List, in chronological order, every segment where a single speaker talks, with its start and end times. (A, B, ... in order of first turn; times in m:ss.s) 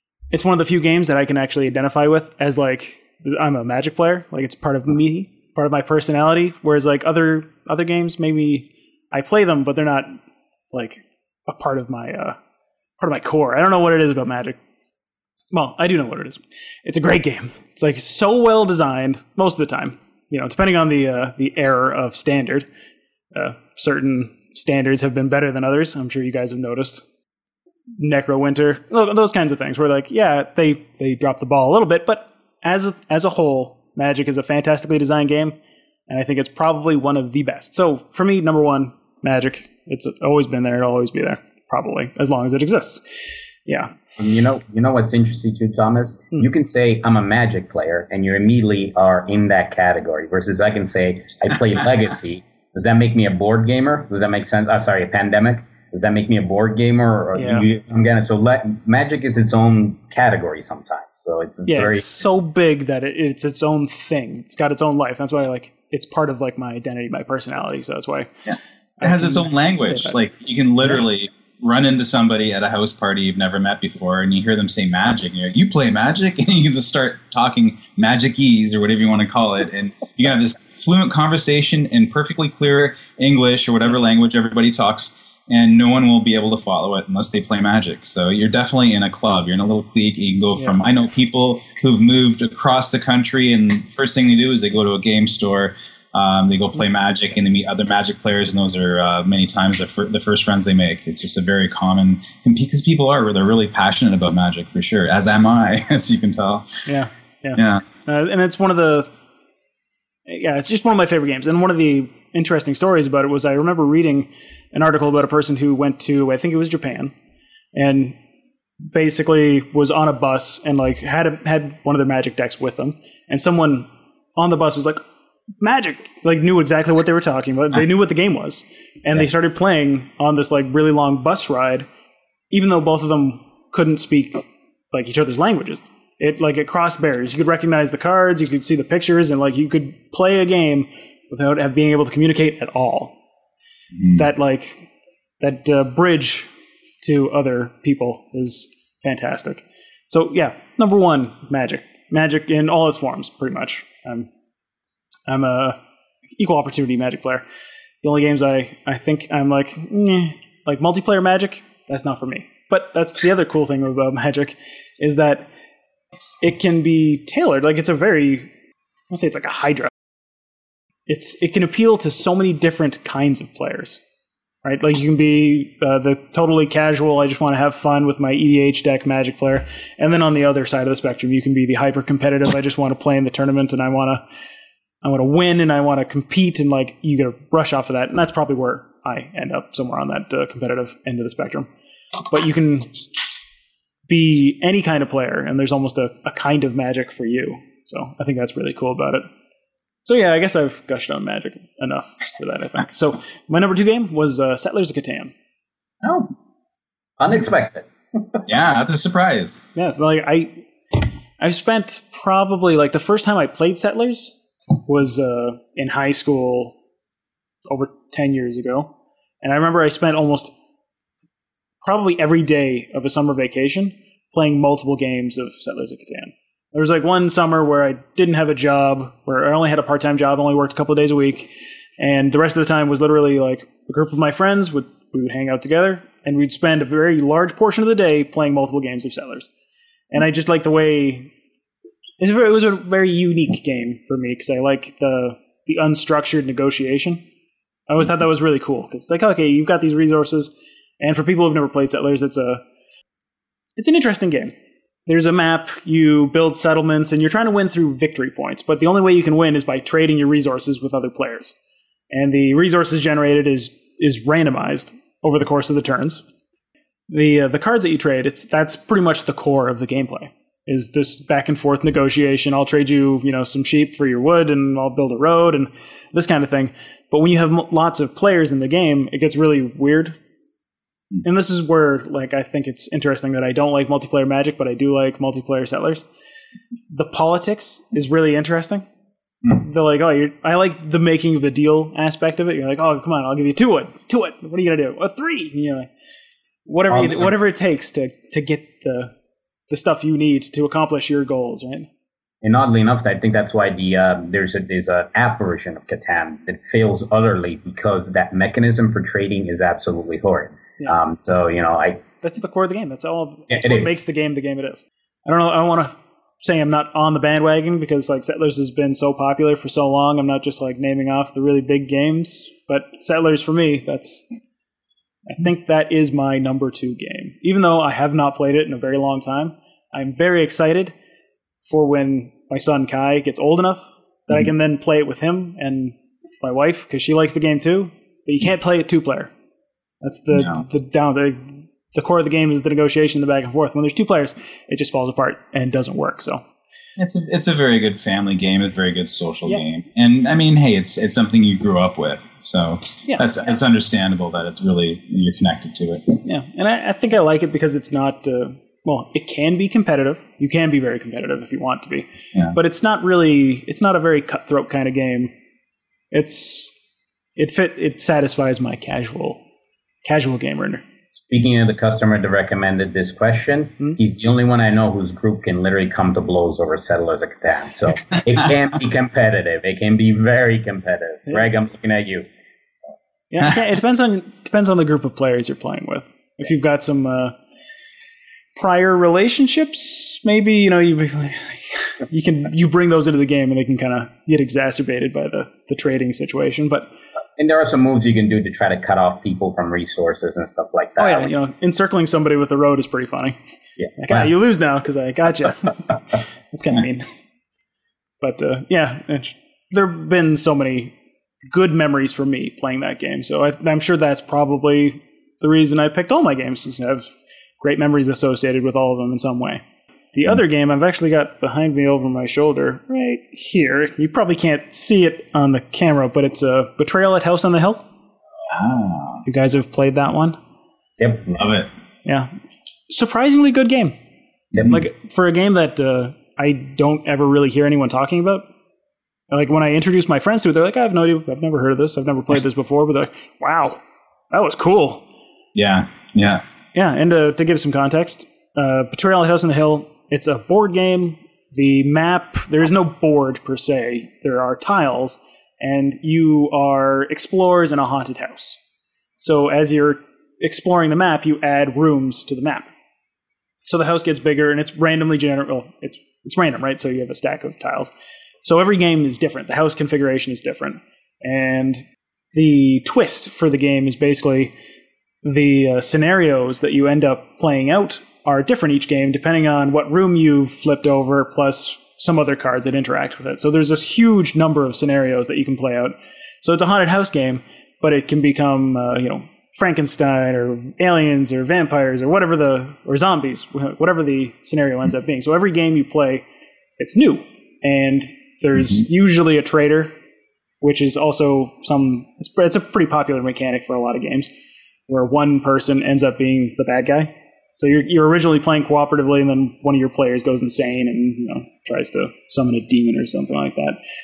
0:00.3-0:10.2 A
0:10.7-0:12.4 A
0:13.0-0:14.6 A
0:15.5-0:22.7 A
0:23.3-0:27.1 A
0:28.0-0:35.6 A
0:36.1-0:44.0 A
0:44.2-1:02.2 B
0:57.4-0:57.7 A
1:01.7-1:08.3 A
1:08.5-1:46.9 C
1:09.0-1:10.2 A
1:46.9-1:49.1 A
1:47.6-1:47.8 C
1:50.3-1:57.1 A
1:57.7-1:58.2 A
1:58.9-2:05.0 A
2:05.6-2:11.9 A
2:12.5-2:23.2 A
2:24.1-2:24.9 A
2:25.4-2:26.5 A
2:27.0-2:34.3 A
2:35.3-2:35.8 A
2:36.4-2:37.4 A
2:38.0-2:45.5 A
2:46.4-2:48.5 A
2:49.1-2:49.9 A
2:51.1-2:54.0 A
2:54.6-3:04.2 A
3:05.0-3:11.7 A
3:12.3-3:13.0 A
3:14.1-3:19.3 A
3:20.0-3:25.3 A
3:27.2-3:28.4 B
3:28.5-3:29.6 C
3:29.8-3:30.6 A
3:31.4-3:36.8 A
3:37.7-3:40.5 A
3:41.8-3:59.5 A
4:00.1-4:01.3 A
4:02.2-4:07.2 A
4:07.9-4:12.6 A
4:13.8-4:14.6 A
4:15.1-4:21.6 A
4:22.1-4:26.2 A
4:27.1-4:40.2 A
4:41.2-4:46.1 A
4:46.9-4:48.9 A
4:49.5-4:55.9 A
4:56.7-4:59.1 A
4:56.9-4:57.3 B
4:59.7-5:01.9 A
5:02.4-5:12.0 B
5:12.2-5:24.4 A
5:13.5-5:13.9 B
5:25.3-5:31.0 A
5:31.6-5:39.3 A
5:40.0-5:46.4 A
5:40.4-5:40.6 C
5:47.0-5:56.2 C
5:56.2-6:05.3 A
6:06.1-6:06.8 A
6:07.4-6:09.4 A
6:10.0-6:10.8 A
6:11.2-6:22.3 B
6:23.3-6:27.4 A
6:28.6-6:36.9 A
6:37.4-6:41.3 B
6:41.0-6:43.4 A
6:43.9-6:44.2 B
6:44.0-6:47.1 A
6:48.2-6:50.9 A
6:51.5-6:59.6 A
7:00.1-7:07.9 A
7:08.5-7:09.2 C
7:09.2-7:10.4 A
7:11.0-7:11.3 B
7:11.3-7:11.7 C
7:12.0-7:12.3 A
7:12.9-7:14.0 A
7:14.6-7:18.5 A
7:19.3-7:25.0 A
7:25.6-7:26.4 C
7:26.7-7:38.6 A
7:39.2-7:42.7 A
7:43.7-7:54.5 A
7:55.2-8:16.3 A
8:16.8-8:20.0 A
8:20.6-8:24.3 A
8:24.9-8:33.8 A